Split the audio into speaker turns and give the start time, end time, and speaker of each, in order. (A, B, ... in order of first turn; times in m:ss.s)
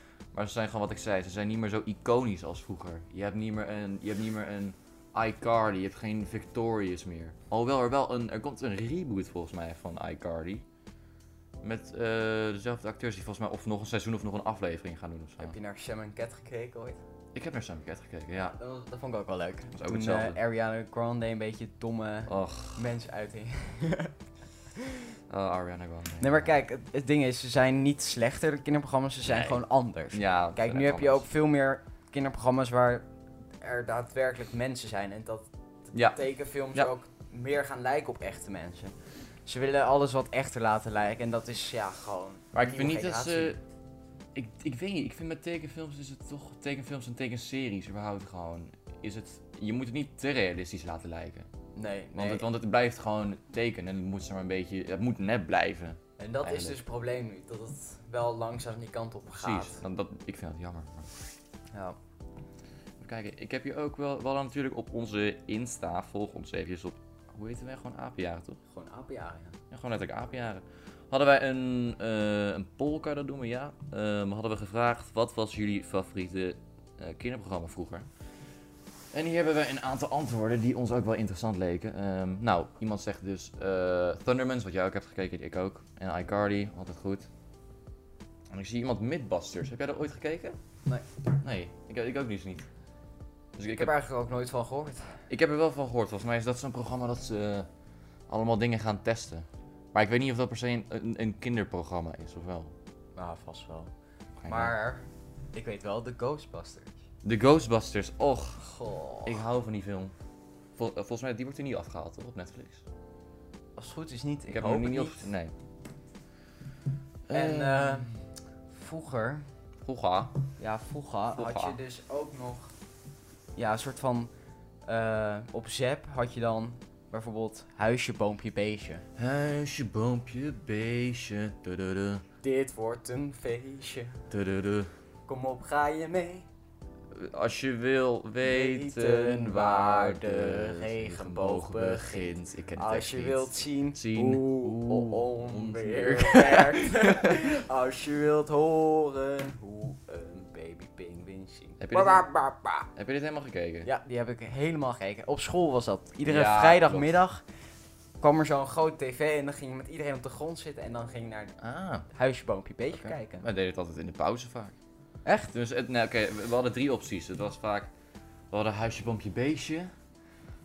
0:00.3-0:10.6 A
0:11.6-0:15.5 A
0:15.4-0:17.0 B
0:17.3-0:18.6 A
0:18.4-0:24.1 B
0:19.7-0:20.4 A
0:22.3-0:22.8 A
0:24.8-0:25.0 B
0:25.3-0:26.5 A
0:26.2-0:33.0 B
0:29.3-0:29.6 A
0:30.1-0:31.2 A
0:33.6-0:38.9 B
0:39.4-0:43.6 B
0:42.5-0:43.6 A
0:44.3-0:51.5 A
0:51.7-0:52.4 B
0:52.1-0:56.8 A
0:56.2-0:59.8 B
0:59.3-1:01.1 A
1:03.0-1:08.6 A
1:08.7-1:09.6 B
1:09.7-1:18.1 A
1:19.1-1:27.3 A
1:28.5-1:30.6 A
1:31.4-1:32.7 A
1:33.6-1:33.9 A
1:33.8-1:35.2 B
1:35.3-1:37.7 A
1:38.3-1:42.7 A
1:43.2-1:43.9 B
1:44.4-1:44.7 A
1:44.4-1:47.0 B
1:47.2-1:48.6 A
1:48.6-1:49.4 B
1:49.2-1:50.1 A
1:50.8-1:52.8 A
1:53.8-1:55.3 B
1:54.5-1:55.5 A
1:57.3-1:58.2 A
1:57.3-1:59.5 B
1:59.8-2:00.4 A
2:00.6-2:02.7 B
2:01.3-2:01.8 A
2:03.6-2:04.3 B
2:04.8-2:09.0 B
2:09.2-2:12.2 A
2:12.4-2:14.2 B
2:14.3-2:14.9 A
2:15.3-2:16.5 B
2:17.1-2:27.5 A
2:18.4-2:32.9 B
2:31.8-2:32.2 A
2:33.0-2:33.9 A
2:33.8-2:37.4 B
2:36.2-2:37.1 A
2:38.2-2:41.6 B
2:41.6-2:42.0 A
2:42.1-2:43.4 B
2:42.9-2:44.7 A
2:45.2-2:45.5 B
2:45.5-2:47.9 A
2:48.5-2:49.9 A